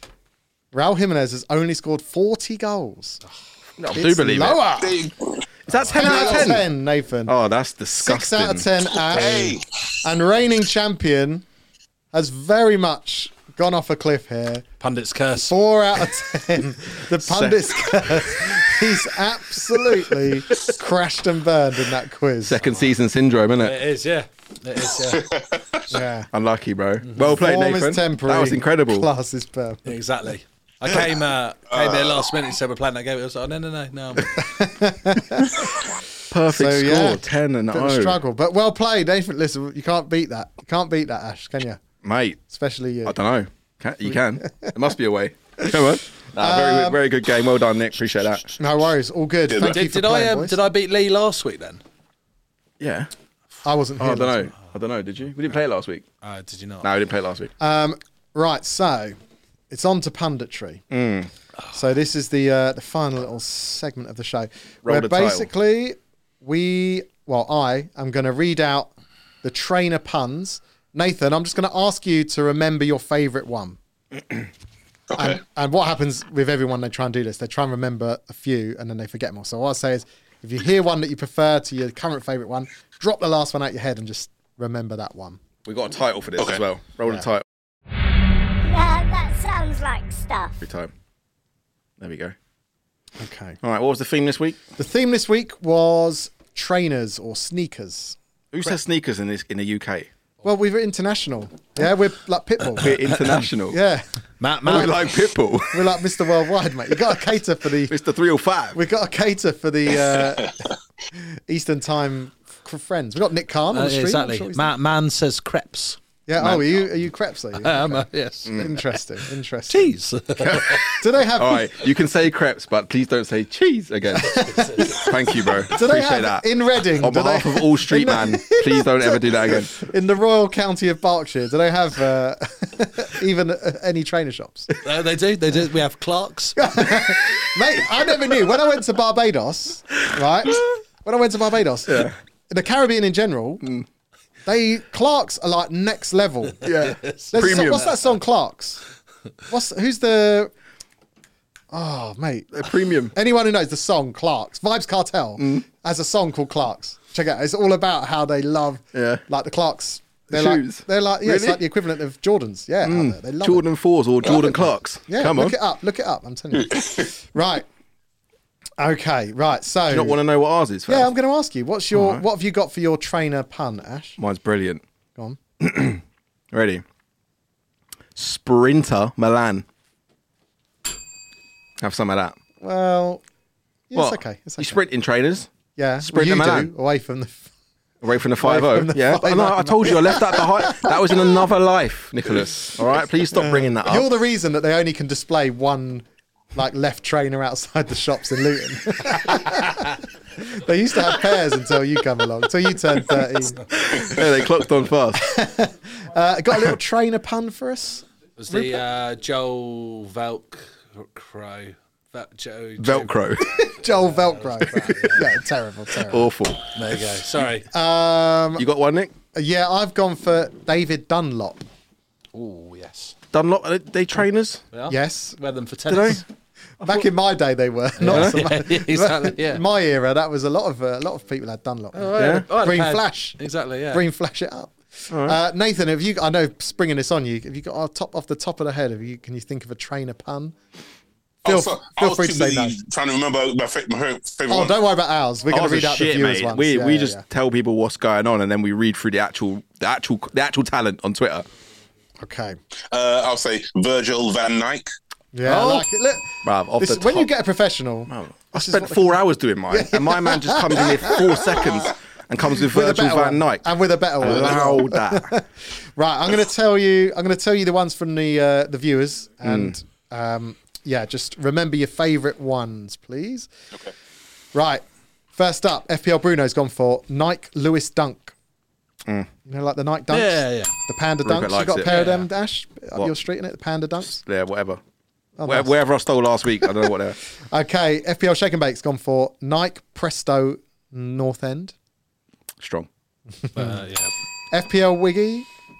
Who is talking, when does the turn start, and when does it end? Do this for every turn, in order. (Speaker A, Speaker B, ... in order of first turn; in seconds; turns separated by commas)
Speaker A: 0.7-3.2, Speaker B: 3.8-4.6, Speaker A: 3.9-5.0, Speaker C: 4.8-5.4, Speaker B: 5.7-6.7, Speaker D: 5.7-6.2, Speaker A: 6.0-7.3, Speaker C: 6.0-6.4, Speaker B: 7.2-8.7, Speaker A: 8.0-11.4, Speaker C: 9.1-9.6, Speaker A: 12.1-14.6, Speaker D: 14.8-15.5, Speaker A: 15.4-22.6, Speaker B: 17.2-18.0, Speaker B: 22.4-23.8, Speaker D: 22.6-22.9, Speaker D: 23.6-25.2, Speaker C: 25.0-26.0, Speaker A: 25.9-26.3, Speaker B: 26.3-29.1, Speaker D: 27.0-27.4, Speaker A: 27.4-29.9, Speaker D: 29.9-34.5, Speaker C: 31.7-32.3, Speaker A: 34.4-35.6, Speaker B: 36.3-38.2, Speaker A: 36.5-41.8, Speaker B: 42.0-42.4, Speaker A: 42.5-43.1, Speaker B: 43.0-48.5, Speaker A: 44.1-44.7, Speaker A: 46.4-47.0, Speaker A: 48.6-50.6, Speaker C: 49.5-49.8, Speaker D: 49.6-51.8, Speaker B: 52.8-53.1, Speaker A: 53.6-54.5, Speaker B: 54.0-56.0, Speaker D: 56.2-56.9, Speaker B: 56.8-57.5, Speaker A: 57.6-59.1, Speaker A: 59.7-60.8, Speaker B: 60.9-61.3, Speaker A: 61.7-68.9, Speaker B: 64.8-65.5, Speaker A: 69.4-73.8, Speaker C: 75.1-75.4, Speaker A: 75.2-85.4, Speaker B: 85.7-87.4, Speaker E: 88.6-90.6, Speaker B: 90.6-90.9, Speaker B: 92.0-92.3, Speaker A: 93.2-93.6, Speaker B: 93.6-94.6, Speaker A: 94.8-98.7, Speaker B: 98.5-100.1, Speaker A: 100.4-103.2, Speaker B: 102.7-103.8, Speaker A: 103.7-105.1, Speaker D: 104.4-104.9, Speaker B: 104.7-105.9, Speaker A: 105.7-107.9, Speaker B: 107.9-108.8, Speaker A: 108.7-110.5, Speaker C: 109.9-110.7, Speaker A: 111.1-114.7, Speaker D: 113.7-116.0, Speaker A: 116.3-120.0, Speaker D: 117.6-118.8, Speaker B: 118.5-118.8, Speaker D: 119.7-120.8, Speaker B: 120.4-129.7, Speaker A: 120.8-121.7, Speaker A: 124.2-125.1, Speaker D: 124.3-125.1, Speaker A: 125.6-134.7, Speaker D: 134.8-136.7, Speaker A: 136.6-143.6, Speaker B: 141.9-142.2, Speaker A: 144.4-146.6, Speaker B: 146.6-147.9, Speaker D: 146.8-147.9, Speaker A: 147.3-148.8, Speaker A: 149.5-150.5, Speaker A: 151.7-163.7, Speaker B: 152.5-153.1, Speaker B: 155.4-155.6, Speaker B: 158.9-159.2, Speaker B: 160.3-161.6, Speaker B: 162.8-165.6, Speaker C: 164.2-164.6, Speaker A: 165.1-167.7, Speaker C: 166.5-167.1, Speaker A: 168.8-170.2, Speaker B: 169.9-171.1, Speaker A: 170.9-174.2, Speaker B: 171.9-172.2, Speaker B: 174.2-174.8, Speaker B: 175.6-176.8, Speaker B: 178.2-179.7, Speaker B: 181.8-182.4, Speaker A: 182.6-183.2, Speaker A: 183.9-184.8, Speaker B: 183.9-185.5, Speaker A: 185.8-187.5, Speaker B: 186.0-186.7, Speaker B: 188.0-194.1, Speaker A: 188.4-190.9, Speaker A: 193.3-204.1, Speaker B: 203.8-205.2, Speaker A: 205.2-208.8, Speaker D: 208.4-213.2, Speaker B: 212.8-213.6, Speaker A: 213.5-216.3, Speaker D: 213.8-215.3, Speaker B: 216.1-216.8, Speaker D: 216.7-217.7, Speaker A: 217.7-218.6, Speaker B: 218.6-219.1, Speaker A: 219.3-221.6, Speaker D: 222.3-223.2, Speaker B: 223.3-224.6, Speaker D: 224.7-226.2, Speaker A: 224.9-225.4, Speaker B: 225.9-226.2, Speaker A: 226.8-233.4, Speaker D: 228.0-229.6, Speaker B: 228.0-228.4, Speaker D: 231.9-234.0, Speaker B: 232.2-232.4, Speaker A: 233.9-240.5, Speaker B: 235.1-235.4, Speaker A: 241.4-242.8, Speaker C: 241.4-244.7, Speaker A: 244.5-247.2, Speaker B: 245.5-251.4, Speaker A: 252.2-252.6, Speaker C: 252.9-254.9, Speaker A: 255.3-261.8, Speaker B: 255.4-255.8, Speaker B: 256.4-257.3, Speaker B: 258.1-263.6, Speaker A: 262.5-273.5, Speaker B: 264.2-265.3, Speaker B: 269.4-269.7, Speaker A: 274.5-274.8, Speaker A: 275.4-278.3, Speaker A: 279.4-284.2, Speaker D: 280.1-280.7, Speaker B: 281.2-282.1, Speaker D: 281.8-282.3, Speaker B: 284.1-284.8, Speaker A: 285.4-285.7, Speaker B: 285.4-287.2, Speaker A: 287.5-291.7, Speaker B: 292.6-292.9, Speaker A: 293.4-293.8, Speaker D: 293.5-294.1, Speaker A: 294.5-295.5